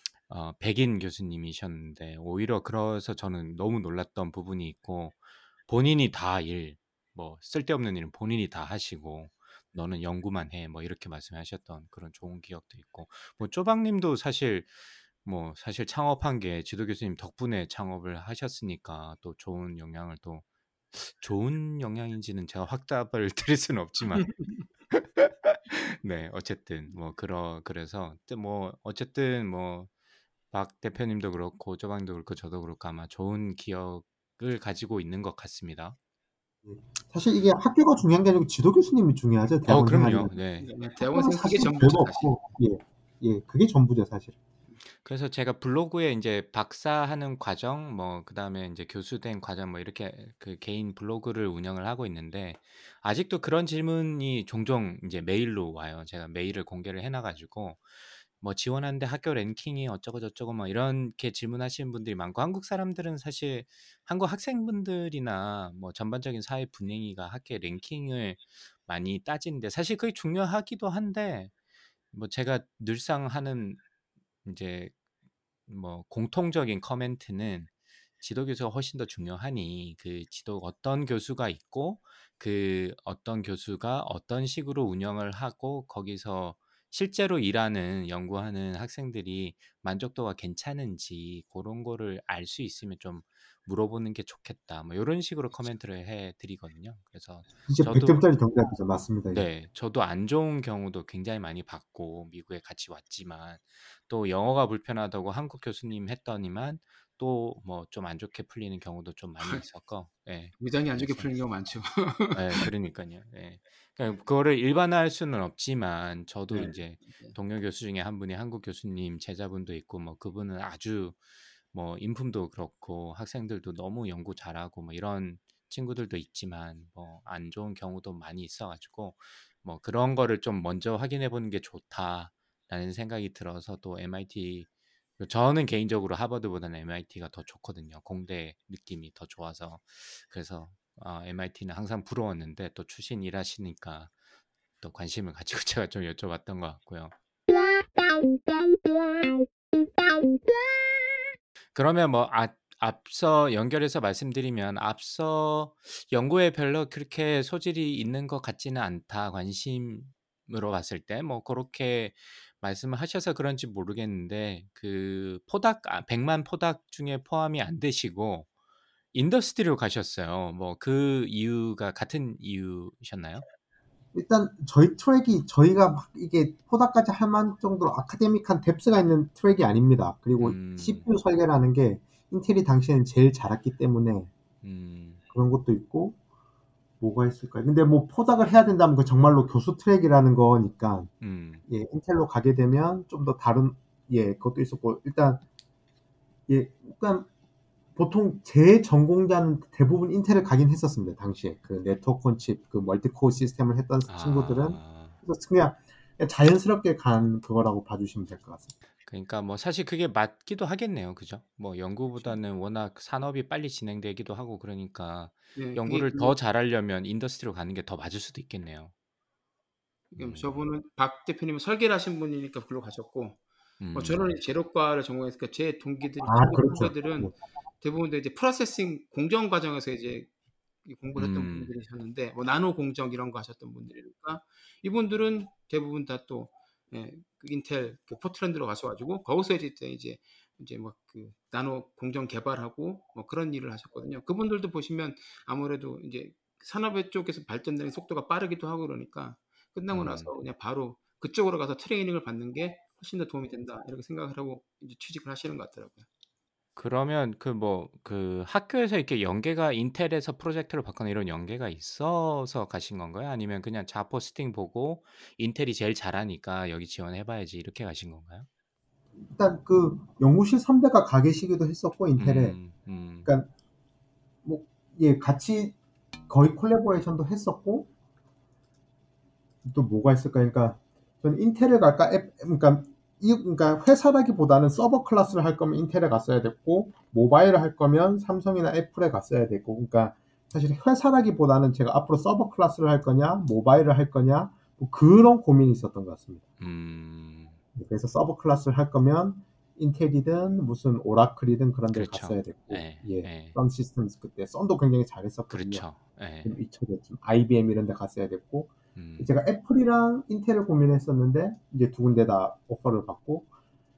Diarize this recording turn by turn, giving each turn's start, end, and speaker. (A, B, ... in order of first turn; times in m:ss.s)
0:00.3-0:24.4 A
0:24.2-0:24.6 B
0:24.9-0:29.9 A
0:30.5-0:36.0 A
0:36.6-0:40.4 C
0:39.6-0:40.7 A
0:40.6-0:42.3 B
0:41.0-0:44.4 C
0:45.0-0:57.8 A
0:58.4-1:11.5 A
1:12.1-1:13.8 A
1:14.4-1:14.9 A
1:15.7-1:17.7 A
1:18.2-1:38.2 A
1:37.7-1:39.4 C
1:39.3-1:51.3 A
1:50.6-1:52.7 B
1:52.3-2:01.2 A
1:56.5-1:57.4 B
2:01.7-2:14.7 A
2:15.2-2:24.1 A
2:24.8-2:27.1 A
2:31.7-2:48.5 A
2:49.1-2:53.4 A
2:54.1-3:04.3 C
3:00.4-3:01.0 A
3:04.6-3:05.2 A
3:05.3-3:06.2 C
3:07.0-3:11.1 C
3:11.2-3:11.6 A
3:11.7-3:15.4 C
3:16.5-3:17.3 C
3:18.0-3:28.7 C
3:24.1-3:25.2 A
3:29.0-3:38.9 A
3:35.6-3:36.3 B
3:40.1-3:43.4 B
3:40.2-3:40.6 A
3:43.8-3:44.3 A
3:43.9-3:50.3 B
3:46.2-3:47.3 C
3:50.8-4:16.0 B
3:51.2-3:51.7 A
4:09.9-4:10.3 A
4:16.8-4:28.5 A
4:29.2-4:32.6 C
4:32.2-4:33.3 A
4:34.4-4:35.7 C
4:36.3-4:37.9 C
4:39.6-4:56.4 C
4:56.6-4:57.6 A
4:57.8-5:05.9 C
5:01.9-5:03.6 A
5:05.5-5:06.5 A
5:06.4-5:13.4 C
5:08.9-5:09.3 A